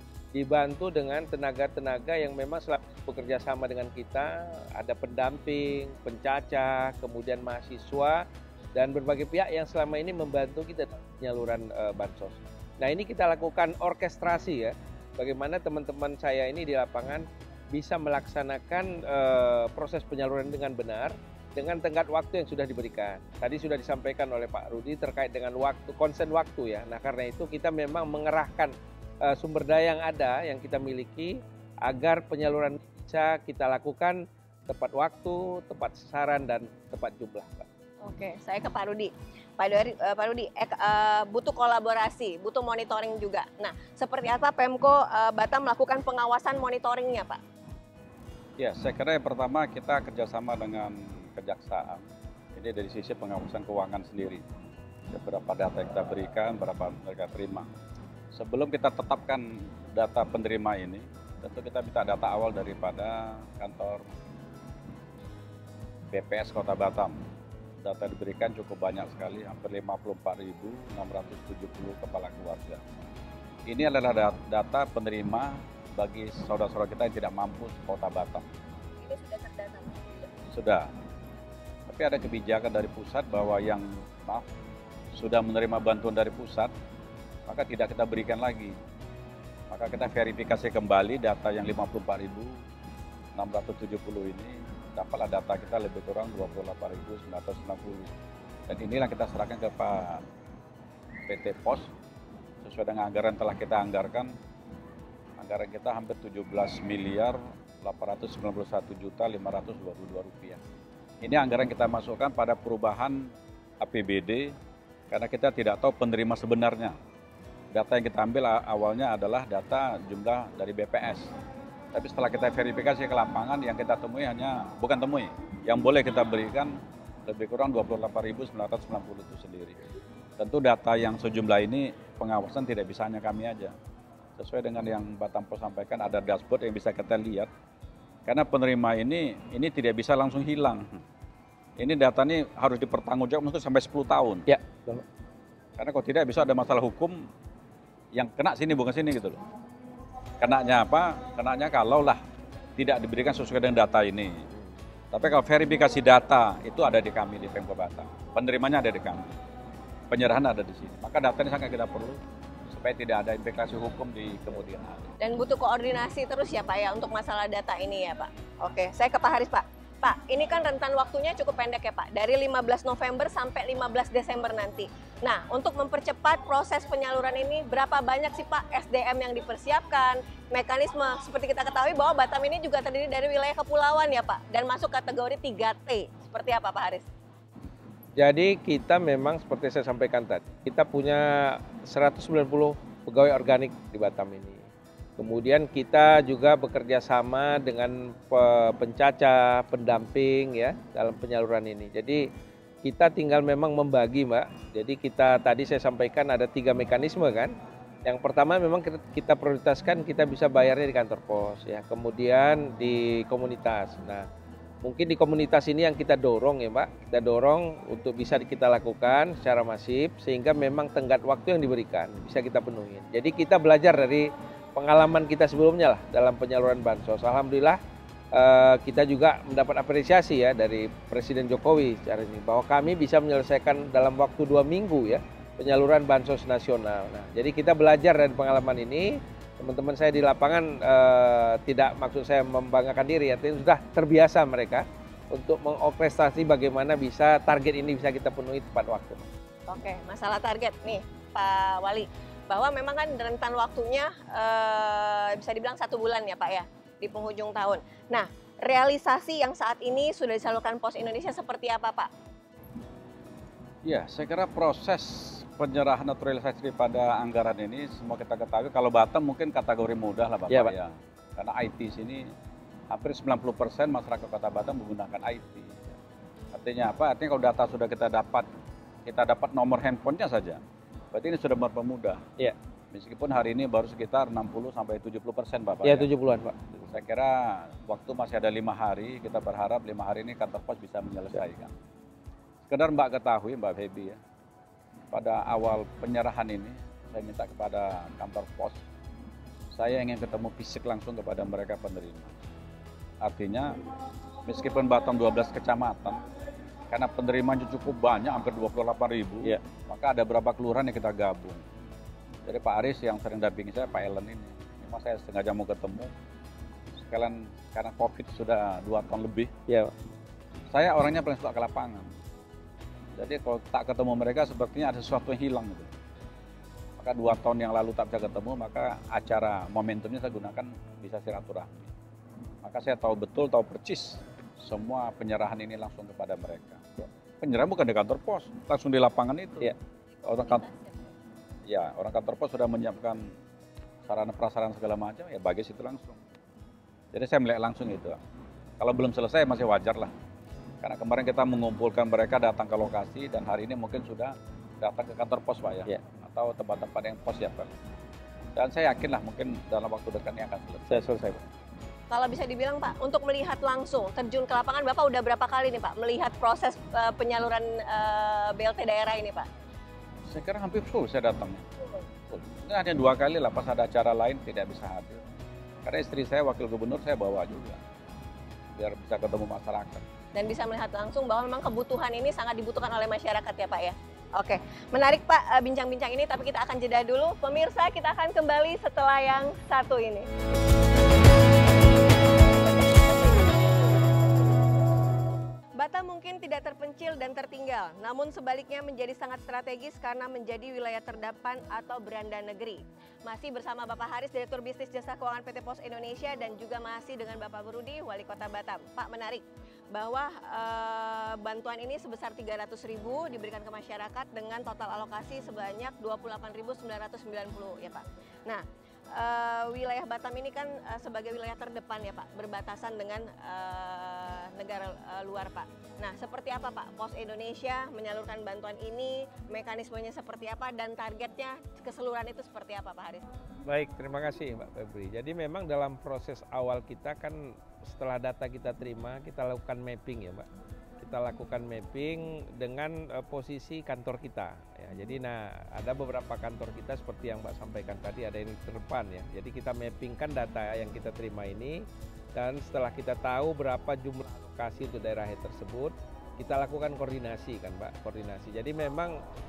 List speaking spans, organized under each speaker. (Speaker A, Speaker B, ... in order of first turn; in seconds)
Speaker A: 0.3-37.7, 144.5-145.0, 188.2-202.3, 202.8-214.3, 214.8-227.8, 228.3-249.3, 285.8-286.9, 360.9-361.4, 433.6-440.5, 441.0-459.2
Speaker B: 38.0-47.4, 79.0-80.3, 165.2-187.1, 249.7-262.1, 340.6-340.9, 362.1-369.5, 380.3-390.3, 393.2-393.6, 395.8-433.3
Speaker C: 48.6-54.4, 55.1-57.7, 58.3-64.1, 66.1-67.2, 67.8-72.8, 73.7-78.5, 80.5-80.9, 81.9-84.5, 85.2-86.7, 87.5-88.8, 89.7-92.6, 93.3-98.1, 98.7-100.2, 101.3-101.9, 102.6-104.3, 105.4-110.6, 111.2-114.5, 115.1-117.0, 117.7-121.3, 121.9-129.8, 130.4-133.8, 134.4-137.5, 138.2-141.0, 141.8-144.4, 145.8-147.3, 148.1-149.4, 150.4-152.2, 152.8-154.4, 155.1-159.3, 160.1-165.1, 263.8-272.3, 272.9-276.0, 276.5-278.5, 279.1-280.6, 281.1-282.2, 282.9-286.1, 286.9-291.7, 292.7-294.2, 295.1-298.8, 299.7-302.4, 303.2-303.8, 304.4-306.2, 306.9-311.6, 312.4-316.1, 317.0-319.5, 320.7-322.1, 323.1-325.9, 327.0-331.9, 332.6-336.8, 337.4-339.7, 340.2-340.7, 341.7-343.3, 344.0-346.2, 347.1-348.2, 348.8-350.1, 350.8-357.8, 358.6-361.3, 370.3-371.7, 372.3-375.2, 375.8-377.8, 378.8-380.0